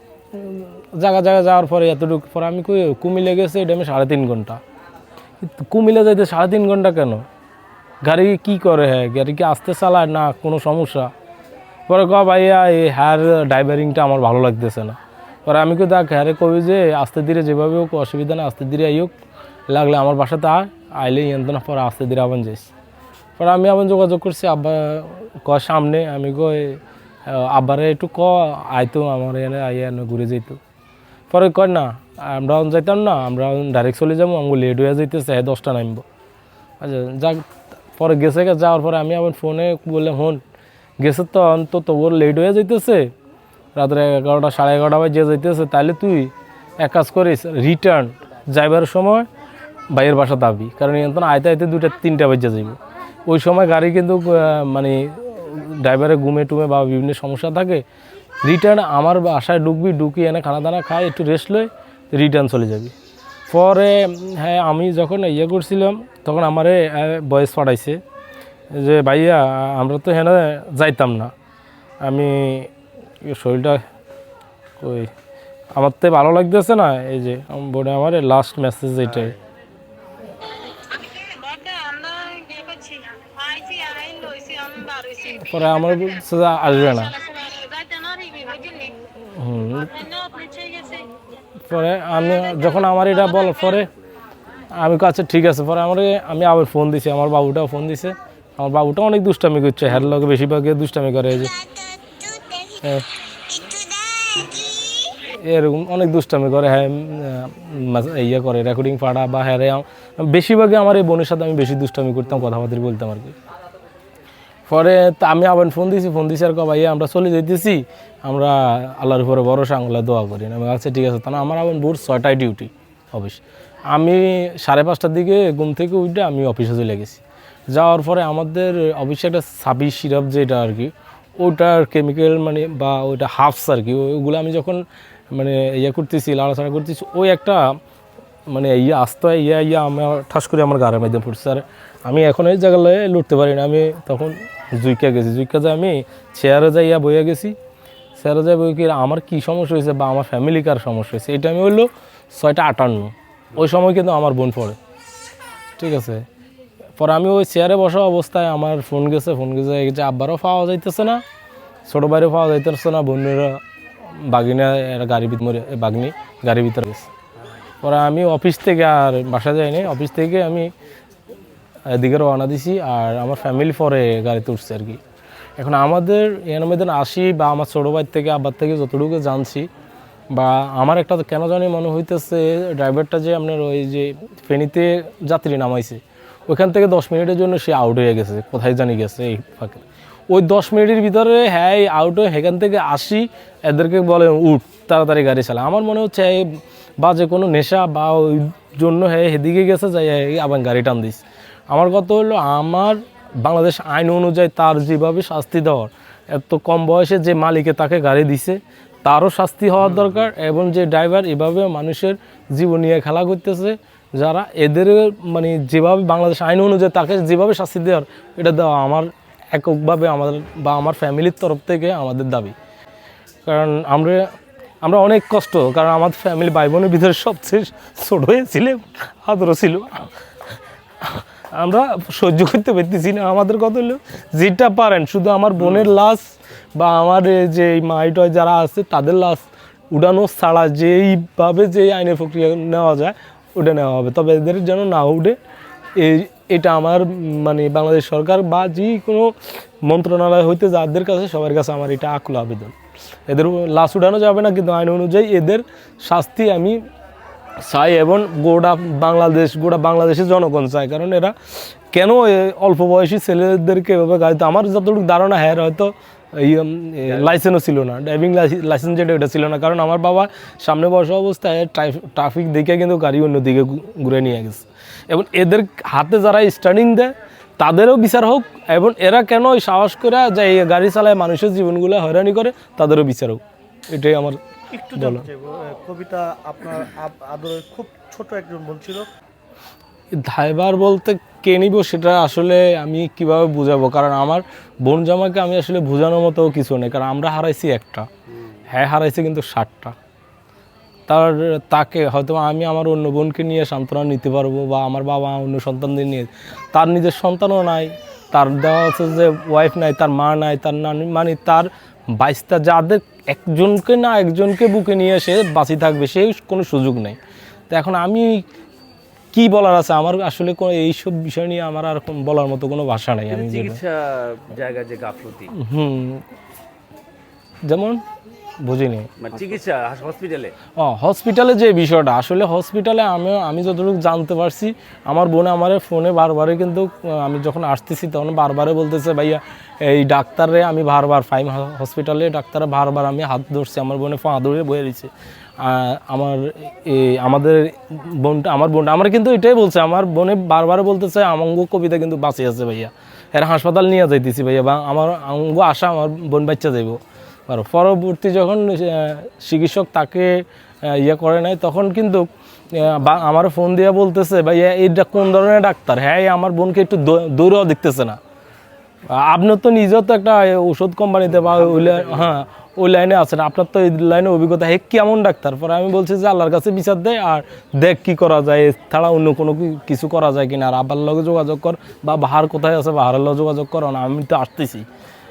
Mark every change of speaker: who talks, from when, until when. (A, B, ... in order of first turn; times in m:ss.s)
0:00.3-0:04.6 A
0:05.4-0:07.2 A
0:08.0-0:11.1 A
0:11.9-0:19.1 A
0:19.7-0:22.7 A
0:23.4-0:30.6 A
0:31.3-0:36.0 A
0:36.8-0:40.4 A
0:41.0-0:43.1 A
0:43.8-0:49.3 A
0:49.9-0:57.8 A
0:58.4-1:02.9 A
1:03.5-1:08.0 A
1:08.7-1:11.3 A
1:12.0-1:13.8 A
1:14.8-1:15.1 A
1:15.7-1:19.4 A
1:20.8-1:26.2 B
1:25.4-1:27.1 A
1:26.7-1:29.1 B
1:29.3-1:30.0 A
1:29.7-1:31.2 B
1:31.6-1:33.9 A
1:32.3-1:33.5 B
1:34.8-1:41.5 A
1:42.2-1:42.8 B
1:43.5-1:44.6 B
1:45.2-1:53.3 A
1:54.7-2:17.8 A
2:18.5-2:27.5 A
2:28.2-2:34.8 A
2:35.8-2:36.2 A
2:37.0-2:41.2 A
2:41.9-2:43.6 A
2:44.1-2:47.1 A
2:47.8-2:50.7 A
2:51.9-2:55.0 A
2:55.6-2:59.7 A
3:00.3-3:42.5 A
3:43.4-3:50.1 A
3:51.0-4:05.4 A
4:06.0-4:12.8 A
4:13.3-4:16.8 A
4:17.6-4:45.3 A
4:44.7-4:49.1 C
4:50.1-4:58.1 A
4:58.7-4:59.9 A
5:01.1-5:17.2 A
5:17.7-5:18.4 A
5:19.3-5:23.8 A
5:23.3-5:25.5 D
5:25.5-5:26.2 A
5:27.6-5:28.0 A
5:28.6-5:29.1 A
5:29.2-5:30.5 D
5:30.8-6:08.2 A
6:09.1-6:24.9 A
6:11.5-6:12.3 D